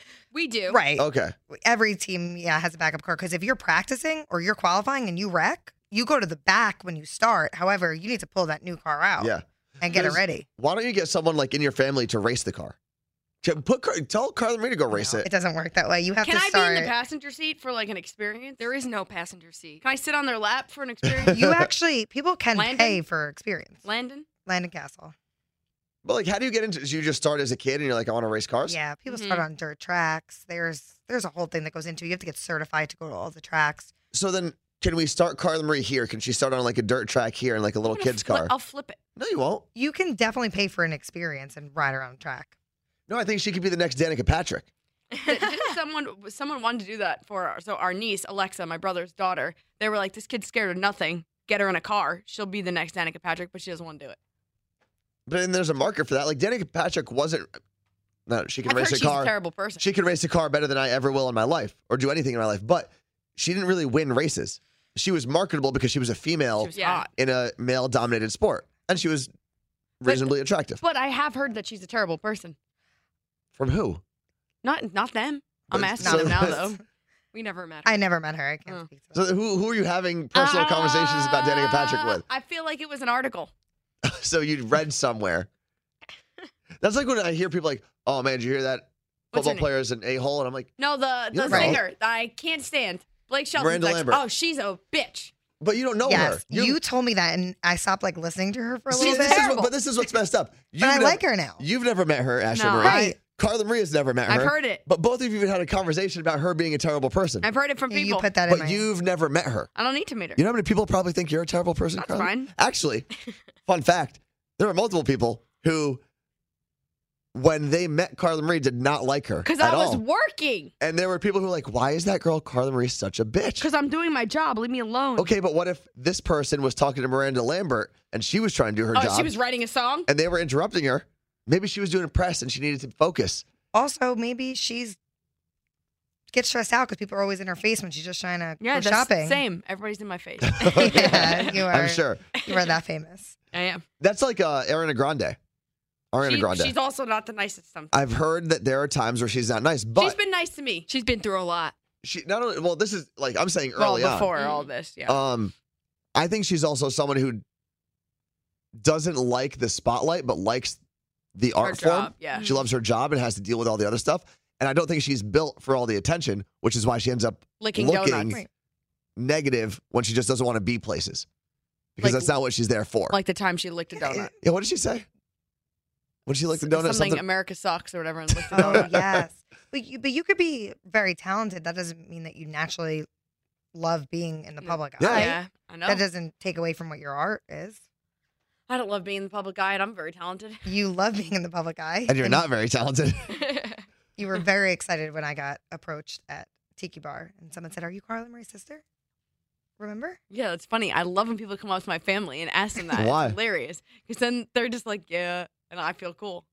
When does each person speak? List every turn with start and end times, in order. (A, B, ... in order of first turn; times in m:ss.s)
0:00.3-0:00.8 A
0:00.7-0:10.5 B
0:01.0-0:01.3 C
0:09.2-0:12.8 C
0:13.4-0:15.3 C
0:14.9-0:16.9 B
0:16.2-0:18.7 D
0:18.6-0:19.8 A
0:19.8-0:21.5 D
0:21.1-0:21.7 C
0:21.3-0:23.8 B
0:22.5-0:23.0 D
0:23.8-0:24.2 D
0:24.4-0:25.1 B
0:26.0-0:28.8 C
0:28.7-0:33.9 B
0:29.1-0:29.4 A
0:34.1-0:38.5 C
0:37.9-0:39.0 D
0:39.2-0:39.6 C
0:39.8-0:42.5 B
0:43.1-0:44.7 C
0:45.1-0:45.8 A
0:45.3-0:54.2 D
0:55.3-0:57.5 C
0:58.3-1:09.3 C
0:58.6-0:59.8 D
1:06.6-1:07.1 D
1:06.7-1:07.1 A
1:10.0-1:10.8 C
1:10.0-1:12.6 D
1:13.6-1:14.0 C
1:14.6-1:16.8 D
1:15.7-1:16.6 C
1:16.0-1:16.8 B
1:17.3-1:18.0 A
1:17.8-1:19.2 B
1:19.1-1:22.2 C
1:20.4-1:23.5 D
1:24.0-1:25.5 C
1:26.8-1:30.7 C
1:29.3-1:29.7 D
1:30.8-1:35.3 D
1:31.3-1:31.8 C
1:31.5-1:31.8 B
1:33.6-1:34.2 C
1:35.6-1:36.8 C
1:36.0-1:39.5 B
1:38.9-1:39.7 D
1:39.0-1:47.5 C
1:40.8-1:41.6 B
1:42.5-1:43.1 D
1:42.8-1:43.2 B
1:44.3-1:44.8 D
1:47.4-1:48.3 D
1:47.9-1:48.9 B
1:48.5-1:49.7 C
1:49.8-1:50.4 D
1:50.4-1:53.1 C
1:52.0-1:52.5 D
1:53.7-1:56.0 C
1:57.3-2:00.0 C
1:59.4-2:00.7 D
2:00.8-2:03.7 C
2:03.6-2:05.3 D
2:05.2-2:09.3 C
2:08.9-2:10.1 D
2:10.1-2:13.4 C
2:13.7-2:15.0 B
2:16.3-2:19.4 B
2:18.6-2:21.6 D
2:20.4-2:22.2 C
2:20.7-2:23.4 B
2:23.5-2:23.8 D
2:24.0-2:25.4 C
2:26.1-2:26.7 C
2:26.2-2:27.9 D
2:27.9-2:30.2 C
2:30.0-2:30.9 D
2:30.9-2:31.8 A
2:32.0-2:34.3 C
2:33.8-2:35.2 D
2:34.4-2:34.7 A
2:35.1-2:35.5 C
2:36.2-2:37.4 C
2:38.8-2:40.8 C
2:41.4-2:48.4 C
2:41.6-2:42.5 D
2:42.3-2:42.7 A
2:47.6-2:48.4 D
2:49.2-2:51.3 C
2:52.0-2:53.2 C
2:52.0-2:52.3 D
2:53.1-2:54.3 D
2:54.0-2:54.3 B
2:54.4-2:55.1 C
2:56.3-2:57.2 C
2:56.6-2:58.9 D
2:58.4-2:59.2 C
2:58.5-3:03.1 B
3:03.7-3:07.8 B
3:05.0-3:05.3 C
3:05.1-3:05.5 A
3:05.1-3:06.0 D
3:08.7-3:10.6 D
3:10.7-3:12.4 B
3:12.1-3:13.4 C
3:13.3-3:13.8 A
3:14.2-3:18.8 B
3:19.8-3:20.2 B
3:20.3-3:26.4 D
3:23.0-3:23.4 C